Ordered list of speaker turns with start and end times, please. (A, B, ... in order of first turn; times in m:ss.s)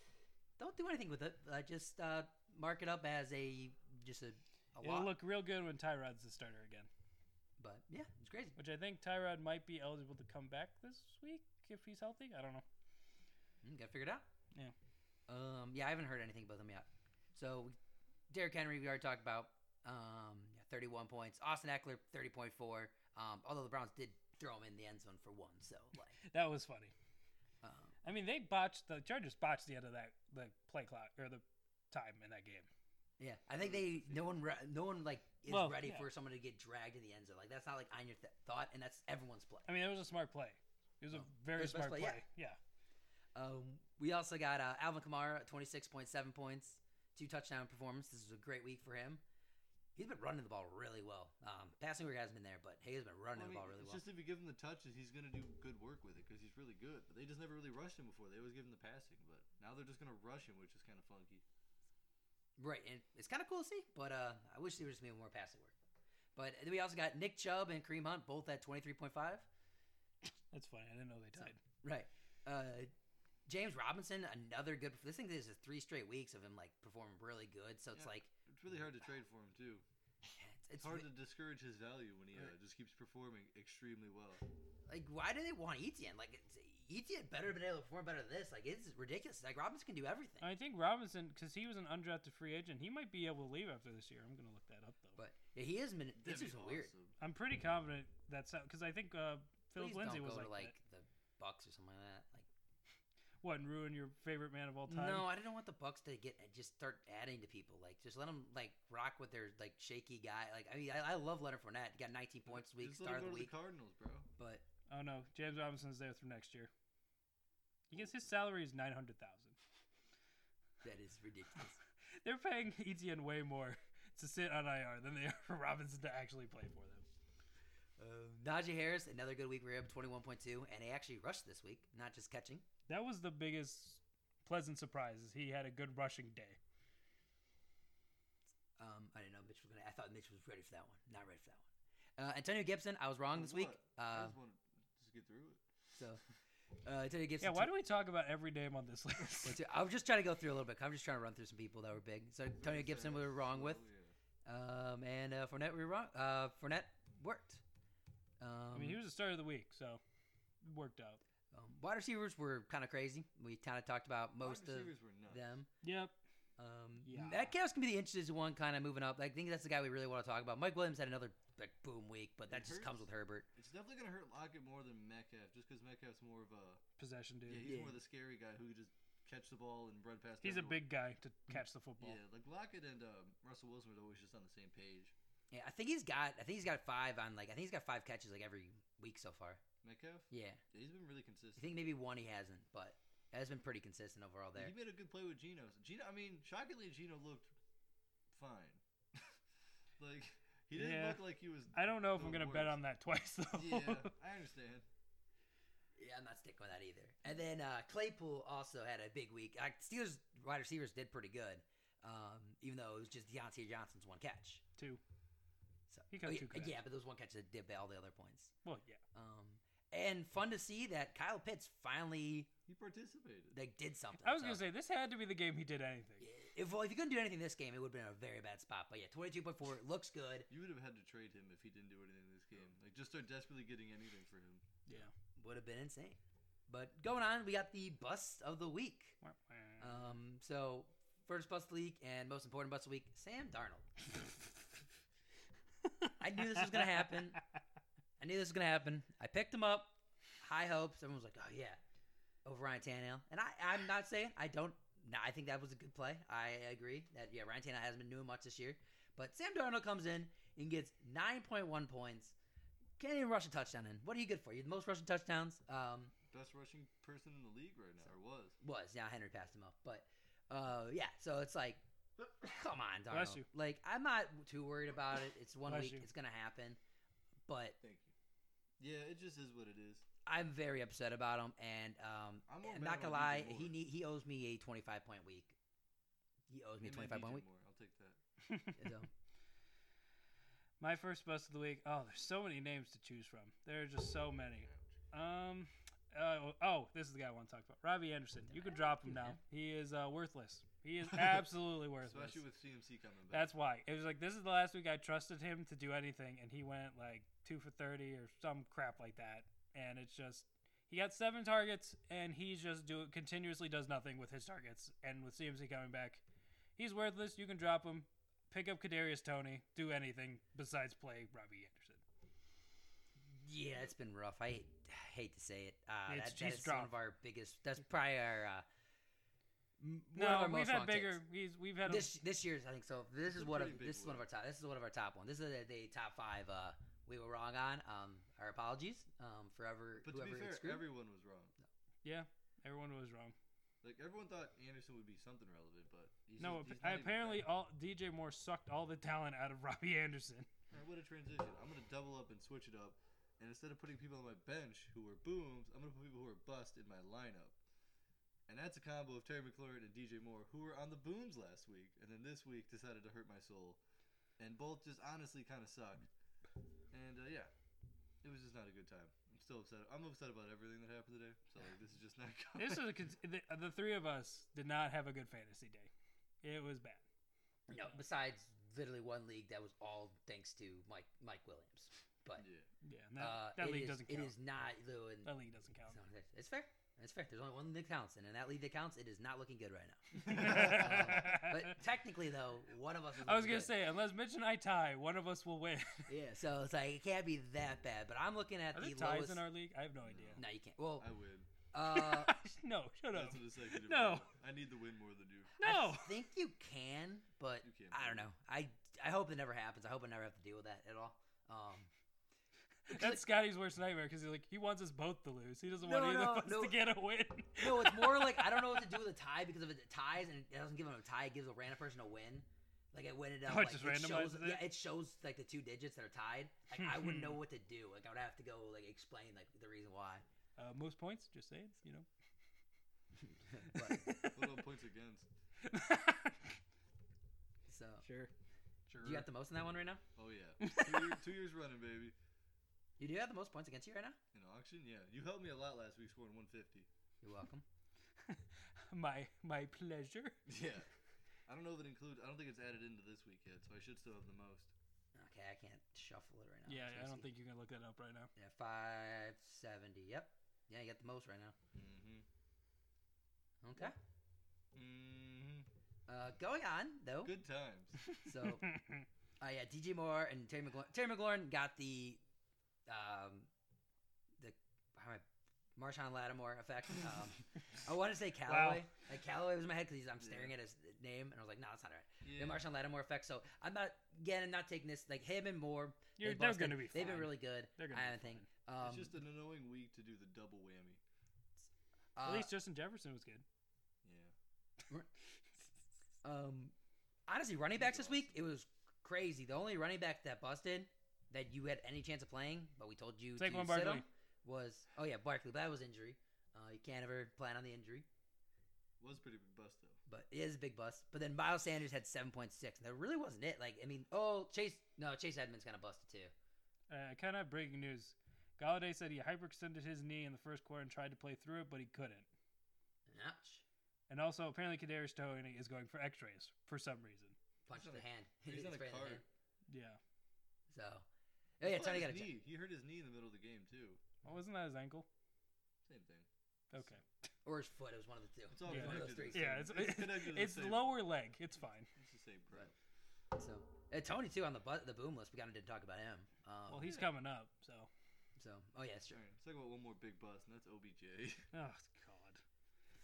0:00.6-0:05.1 A
0:04.8-0:06.9 B
0:07.6-0:08.6 A
0:08.6-0:12.6 B
0:13.6-0:14.2 A
0:15.3-0:17.8 A
0:18.3-0:26.2 A
0:26.2-0:26.9 B
0:27.6-0:27.9 A
0:28.0-0:32.7 B
0:33.2-0:39.7 A
0:33.6-0:34.3 C
0:35.5-0:36.1 B
0:39.7-0:42.6 B
0:41.1-0:42.2 A
0:43.3-0:49.2 A
0:50.0-0:54.0 A
0:53.3-1:01.4 C
1:02.6-1:05.7 A
1:06.4-1:09.5 A
1:10.5-1:11.6 B
1:11.4-1:12.9 A
1:13.5-1:18.3 A
1:17.9-1:19.8 C
1:20.3-1:21.1 A
1:20.8-1:24.4 C
1:24.9-1:30.5 A
1:30.4-1:35.2 B
1:35.2-1:36.9 A
1:36.2-1:37.2 C
1:37.2-1:40.7 B
1:39.8-1:42.5 A
1:43.4-1:45.3 B
1:44.9-1:53.5 A
1:52.5-1:54.3 C
1:54.4-1:54.6 A
1:54.9-1:56.7 B
1:57.9-1:59.6 B
2:00.8-2:01.8 A
2:02.2-2:07.0 B
2:08.0-2:12.6 A
2:12.9-2:16.6 B
2:18.8-2:21.6 A
2:22.2-2:24.4 A
2:23.3-2:25.6 C
2:25.9-2:26.2 A
2:26.8-2:27.7 A
2:27.4-2:29.6 B
2:29.4-2:33.8 A
2:32.6-2:34.1 C
2:34.4-2:37.6 A
2:38.4-2:39.0 A
2:38.7-2:40.0 B
2:40.6-2:41.2 B
2:41.5-2:45.7 A
2:44.4-2:45.4 C
2:45.8-2:46.2 B
2:46.6-2:53.5 A
2:47.0-2:47.5 B
2:52.5-2:56.8 C
2:57.0-2:57.7 B
2:57.5-3:00.9 C
2:57.6-2:57.9 A
3:00.4-3:02.2 B
3:02.0-3:05.1 C
3:05.5-3:09.6 A
3:09.8-3:11.8 C
3:10.3-3:10.6 A
3:11.6-3:14.7 A
3:14.6-3:17.5 C
3:18.3-3:19.4 C
3:20.0-3:22.8 C
3:20.7-3:24.1 B
3:23.5-3:24.8 C
3:26.0-3:34.6 A
3:35.9-3:38.5 A
3:36.1-3:36.8 B
3:38.6-3:39.0 B
3:39.1-3:42.5 A
3:42.7-3:43.6 C
3:43.5-3:44.6 A
3:44.2-3:46.2 B
3:46.2-3:50.5 A
3:50.5-3:54.7 C
3:55.4-3:59.2 A
3:59.2-4:00.0 B
3:59.8-4:03.9 A
4:06.2-4:07.4 A
4:06.4-4:07.1 B
4:08.2-4:11.8 A
4:12.4-4:22.3 A
4:23.0-4:26.1 A
4:26.3-4:28.6 C
4:28.6-4:31.8 A
4:32.4-4:36.8 A
4:33.1-4:33.5 B
4:35.7-4:36.1 B
4:37.5-4:37.8 A
4:37.8-4:38.1 C
4:38.8-4:40.0 C
4:40.2-4:45.6 A
4:42.5-4:43.8 C
4:46.5-4:47.4 A
4:46.8-4:48.2 C
4:48.5-4:48.9 B
4:48.8-4:49.1 A
4:50.8-5:02.4 B
4:54.6-4:54.9 C
4:58.5-4:59.4 A
5:01.1-5:01.5 C
5:02.0-5:03.5 C
5:03.3-5:16.2 B
5:16.8-5:22.0 B
5:23.3-5:28.6 A
5:26.1-5:26.9 B
5:29.8-5:31.2 A
5:30.1-5:32.1 B
5:31.8-5:40.9 A
5:33.2-5:34.3 C
5:40.0-5:41.5 C
5:42.0-5:43.3 B
5:43.8-5:47.5 C
5:46.4-5:50.5 B
5:50.7-5:57.6 C
5:58.5-6:03.8 C
6:04.4-6:06.1 C
6:06.9-6:07.5 C
6:08.2-6:13.0 C
6:12.6-6:15.9 B
6:16.4-6:17.0 B
6:17.7-6:22.4 A
6:22.4-6:22.7 C
6:22.8-6:24.3 B
6:23.2-6:25.3 A
6:25.2-6:26.0 B
6:25.9-6:33.7 A
6:30.2-6:30.9 C
6:30.3-6:31.8 B
6:33.2-6:36.1 B
6:36.1-6:39.4 A
6:38.7-6:40.4 B
6:40.0-6:40.4 C
6:40.4-6:41.1 A
6:41.0-6:41.5 C
6:41.7-6:42.4 A
6:41.8-6:44.3 B
6:43.1-6:45.6 C
6:45.6-6:46.2 B
6:45.6-6:51.9 A
6:47.6-6:48.3 C
6:52.9-6:59.0 B
6:52.9-6:53.2 A
6:55.8-6:56.8 A
6:57.6-7:10.2 A
7:03.4-7:04.7 B
7:06.8-7:07.4 B
7:10.6-7:12.1 B
7:13.2-7:14.1 A
7:13.7-7:14.6 B
7:14.3-7:15.3 C
7:15.6-7:16.6 B
7:17.7-7:18.0 A
7:18.0-7:18.3 B
7:18.9-7:19.3 C
7:19.0-7:20.0 A
7:20.2-7:22.1 C
7:20.6-7:21.2 B
7:23.0-7:24.2 A
7:24.3-7:26.9 C
7:27.2-7:27.6 A
7:28.2-7:30.4 B
7:30.5-7:30.9 C
7:31.5-7:34.7 C
7:35.1-7:37.3 A
7:36.7-7:38.3 B
7:38.4-7:41.5 A
7:41.7-7:42.2 C
7:43.6-7:43.9 A
7:44.7-7:45.7 C
7:46.1-7:47.3 A
7:47.2-7:48.0 C
7:48.1-7:49.0 B
7:48.2-7:48.7 A
7:49.4-7:52.2 A
7:52.9-7:53.5 A
7:54.4-7:55.2 A
7:55.8-8:09.2 A
7:58.5-7:58.9 B
8:00.2-8:00.5 C
8:02.2-8:02.6 C
8:06.2-8:08.4 B
8:08.8-8:11.0 C
8:12.2-8:12.5 A
8:12.2-8:13.4 B
8:14.0-8:14.3 C
8:16.2-8:16.7 A
8:17.3-8:28.1 A
8:17.8-8:18.3 C
8:23.4-8:24.0 B
8:29.0-8:30.0 C
8:30.1-8:36.3 A
8:36.9-8:42.3 B
8:43.1-8:43.6 A
8:44.1-8:47.4 B
8:47.6-8:49.2 A
8:47.7-8:49.2 C
8:49.7-8:50.0 B
8:50.7-8:51.0 A
8:51.6-8:52.3 A
8:51.6-8:54.0 C
8:54.2-8:55.1 B
8:55.8-8:56.3 C
8:56.7-8:57.0 B
8:57.4-8:59.5 A
8:58.5-9:01.0 C
8:58.7-9:01.9 B
9:02.0-9:02.7 C
9:03.3-9:07.0 A
9:06.7-9:07.9 B
9:08.4-9:09.2 A
9:09.1-9:11.5 C
9:11.5-9:12.4 B